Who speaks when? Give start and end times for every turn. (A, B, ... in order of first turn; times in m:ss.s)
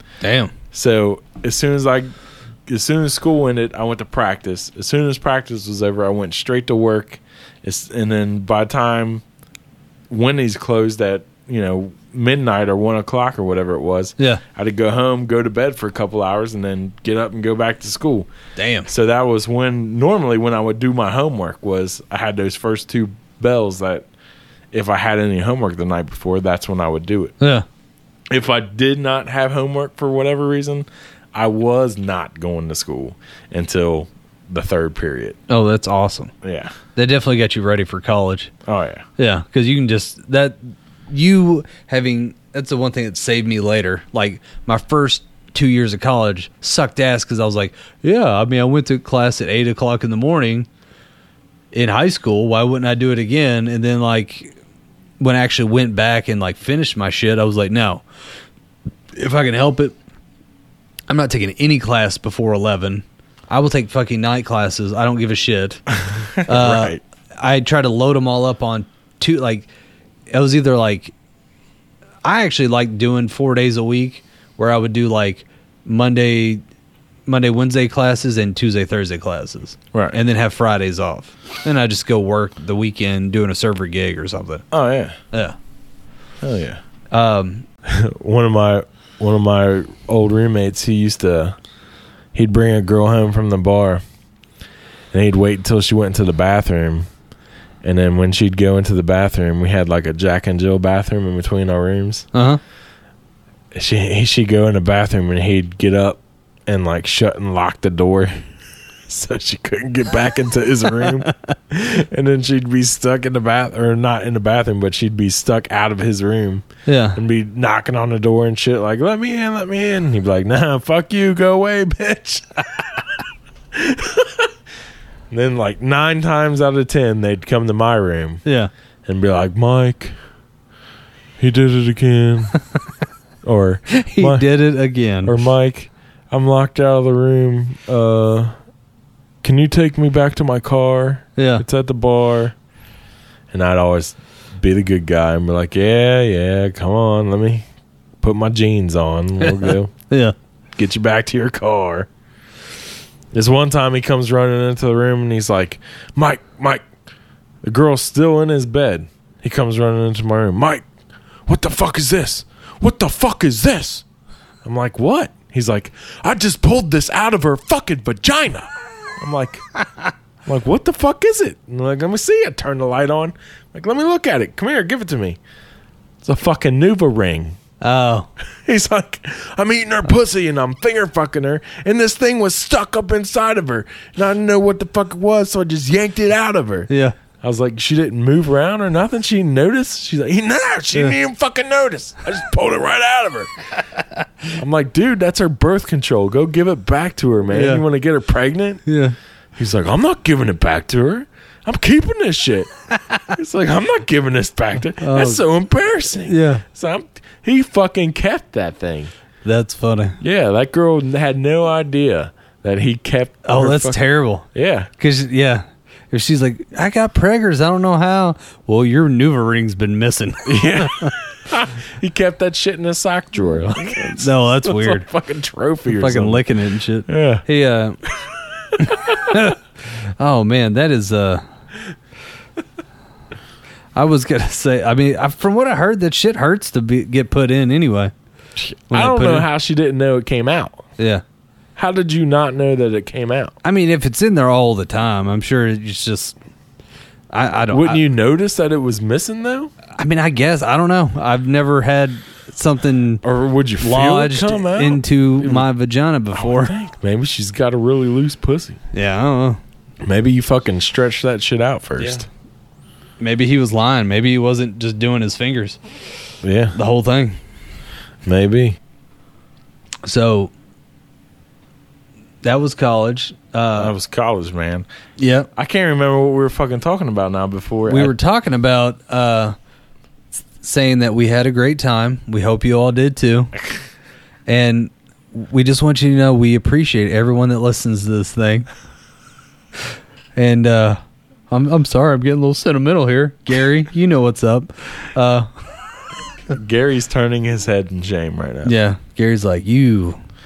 0:00.2-0:00.5 A
0:00.7-0:02.1 B
0:02.7-0:09.2 B
0:10.1-0:18.3 B
0:18.6-0:18.9 A
0:18.9-0:24.1 B
0:24.7-0:27.4 B
0:27.4-0:27.6 A
0:28.3-0:35.4 B
0:35.5-0:36.3 A
0:36.4-0:36.7 B
0:37.0-0:38.5 A
0:38.6-0:39.0 B
0:39.2-0:50.7 A
0:51.7-0:54.5 A
0:55.2-0:58.0 A
0:59.1-0:59.9 A
1:01.1-1:05.8 A
1:05.9-1:07.0 B
1:06.4-1:09.7 A
1:10.3-1:11.1 A
1:12.2-1:16.6 A
1:17.3-1:24.6 A
1:19.9-1:20.2 B
1:24.7-1:25.2 B
1:26.4-1:26.8 B
1:27.1-1:27.6 A
1:27.8-1:31.6 B
1:32.3-1:34.0 B
1:35.1-1:37.1 B
1:37.8-1:42.3 B
1:42.3-1:42.6 A
1:43.7-1:48.4 B
1:49.1-2:03.0 B
1:51.2-1:51.5 A
1:56.8-1:57.2 A
2:03.7-2:04.5 B
2:05.3-2:08.4 B
2:08.4-2:08.7 A
2:09.0-2:10.1 B
2:11.4-2:12.5 B
2:13.4-2:14.5 B
2:13.9-2:15.3 A
2:15.2-2:18.5 B
2:19.4-2:22.5 B
2:21.4-2:21.6 A
2:23.5-2:27.7 B
2:28.2-2:29.9 B
2:29.4-2:30.3 A
2:30.8-2:32.1 B
2:33.3-2:36.8 B
2:37.6-2:40.8 B
2:41.5-2:44.0 B
2:44.6-2:49.6 B
2:50.4-2:55.4 B
2:56.2-2:57.6 B
2:57.8-2:58.3 A
2:58.6-3:06.9 B
3:06.9-3:07.1 A
3:07.4-3:13.5 B
3:14.6-3:18.8 B
3:17.5-3:17.8 A
3:18.8-3:19.1 A
3:19.6-3:22.7 B
3:23.3-3:29.1 B
3:25.0-3:25.4 A
3:26.2-3:26.6 A
3:29.4-3:30.2 A
3:30.2-3:34.0 B
3:33.4-3:34.4 A
3:34.5-3:34.9 B
3:35.0-3:41.1 A
3:40.4-3:46.5 B
3:44.2-3:45.0 A
3:45.8-3:48.0 A
3:47.1-3:47.4 B
3:48.0-3:49.0 B
3:48.8-3:49.6 A
3:50.2-3:51.4 A
3:54.0-3:58.1 A
3:58.6-4:00.9 B
3:58.9-3:59.5 A
4:01.0-4:01.2 A
4:01.8-4:03.5 B
4:03.6-4:06.4 A
4:07.3-4:08.0 A
4:07.7-4:09.7 B
4:10.0-4:13.2 A
4:13.2-4:15.7 B
4:13.8-4:16.7 A
4:16.4-4:18.8 B
4:18.9-4:19.6 A
4:20.0-4:22.2 B
4:23.2-4:25.8 A
4:26.4-4:26.8 B
4:26.7-4:27.4 A
4:28.2-4:28.8 B
4:30.0-4:30.5 A
4:32.4-4:33.9 A
4:33.8-4:34.8 B
4:35.2-4:35.5 A
4:35.5-4:38.1 B
4:37.9-4:39.5 A
4:40.6-4:43.5 A
4:44.5-4:48.7 A
4:50.4-4:55.5 A
4:56.5-4:58.7 B
4:58.6-5:00.2 A